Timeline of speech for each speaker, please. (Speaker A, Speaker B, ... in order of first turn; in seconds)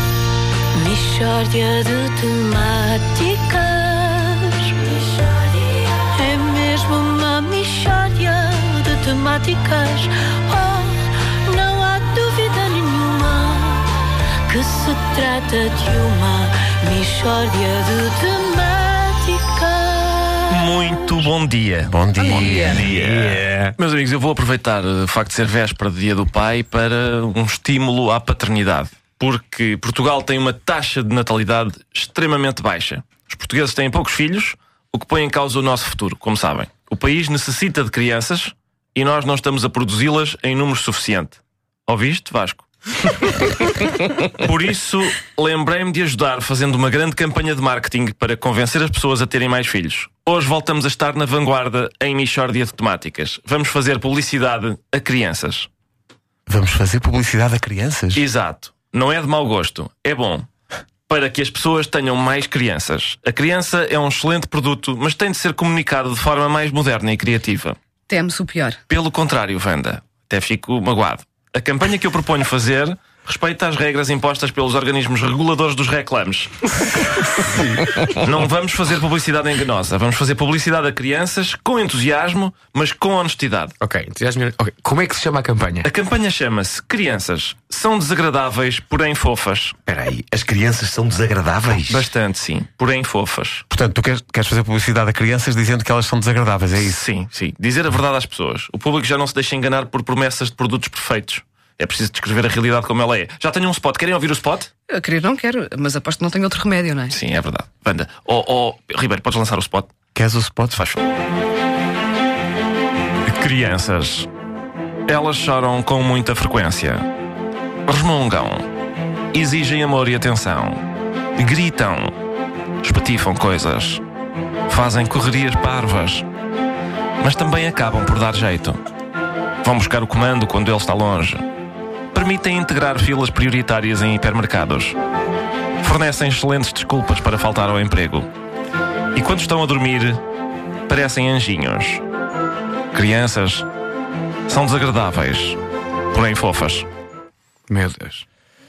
Speaker A: 0.7-20.6, 68.1-68.7
Speaker B: 20.5-43.5, 44.3-55.7, 58.1-60.5, 61.1-67.8, 68.9-77.5, 78.1-83.8, 85.8-89.8, 91.9-93.7, 96.8-104.7, 107.1-109.9, 110.7-111.0, 113.3-114.3, 115.1-117.1, 117.9-118.7, 119.3-120.8, 121.4-122.1, 122.8-124.0, 124.7-126.3, 127.2-128.8, 129.6-131.5, 132.1-135.0, 135.8-138.3, 139.2-140.2, 140.9-142.0, 142.9-143.7, 144.5-145.6, 146.1-146.9
Speaker C: 21.9-22.9, 56.5-58.2, 93.7-97.0, 110.2-110.8
Speaker D: 22.3-22.9, 68.1-68.7, 104.9-107.1
Speaker E: 22.8-23.2, 89.9-91.9
Speaker F: 22.9-23.5, 83.8-85.9, 147.7-148.2